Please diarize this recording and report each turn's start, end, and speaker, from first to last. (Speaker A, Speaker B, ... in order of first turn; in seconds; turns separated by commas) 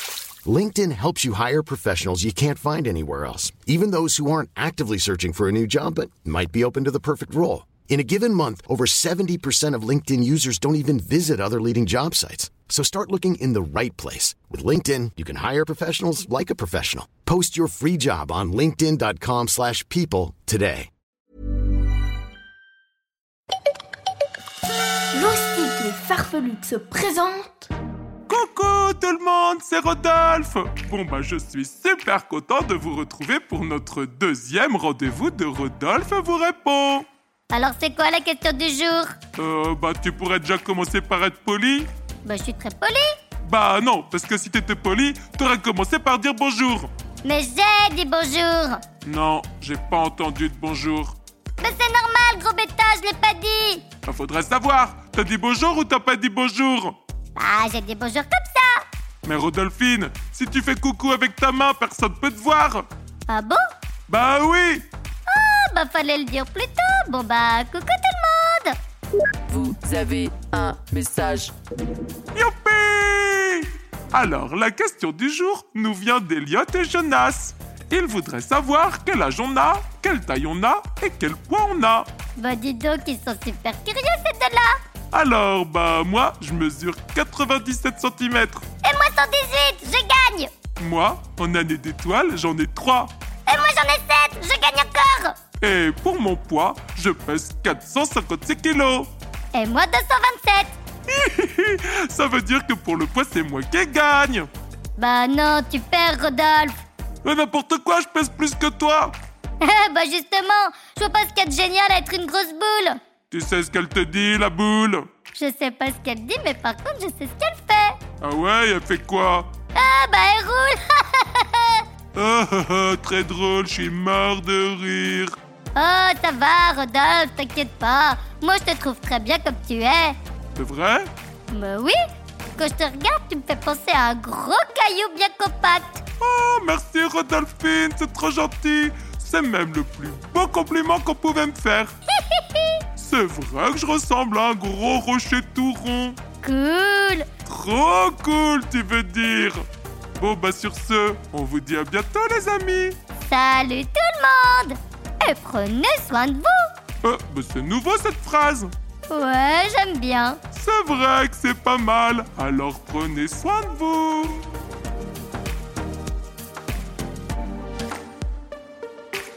Speaker A: 0.4-20.9, Speaker B: 25.1-27.7, Speaker C: 28.3-37.1, Speaker D: 37.5-39.1, Speaker C: 39.4-41.9, Speaker D: 42.2-43.1, Speaker C: 43.4-46.9, Speaker D: 47.2-48.8, Speaker C: 49.0-51.1, Speaker D: 51.6-53.9, Speaker C: 54.0-57.0, Speaker D: 57.4-58.8, Speaker C: 59.2-62.9, Speaker D: 63.3-63.6, Speaker C: 64.1-64.8, Speaker D: 65.3-68.8, Speaker E: 69.5-71.5, Speaker C: 72.3-82.1, Speaker D: 82.3-84.8, Speaker C: 85.1-88.7, Speaker D: 88.8-90.5, Speaker C: 90.8-93.1, Speaker D: 93.5-95.4, Speaker C: 95.6-99.1, Speaker D: 99.5-100.7, Speaker C: 101.1-104.5, Speaker D: 105.0-106.8, Speaker C: 107.2-109.2, Speaker D: 109.6-113.0, Speaker C: 113.3-115.1, Speaker D: 115.3-118.0, Speaker C: 118.2-119.5, Speaker D: 119.7-121.8, Speaker C: 122.1-125.3, Speaker D: 125.7-130.2, Speaker C: 130.6-131.1, Speaker D: 131.5-132.0, Speaker D: 132.5-136.0, Speaker C: 136.2-141.9, Speaker D: 142.1-142.8, Speaker C: 142.9-146.2, Speaker D: 146.4-147.3, Speaker C: 147.5-149.7, Speaker C: 150.2-153.0, Speaker D: 153.2-156.7, Speaker C: 157.0-158.7, Speaker D: 159.1-160.4, Speaker C: 160.5-164.4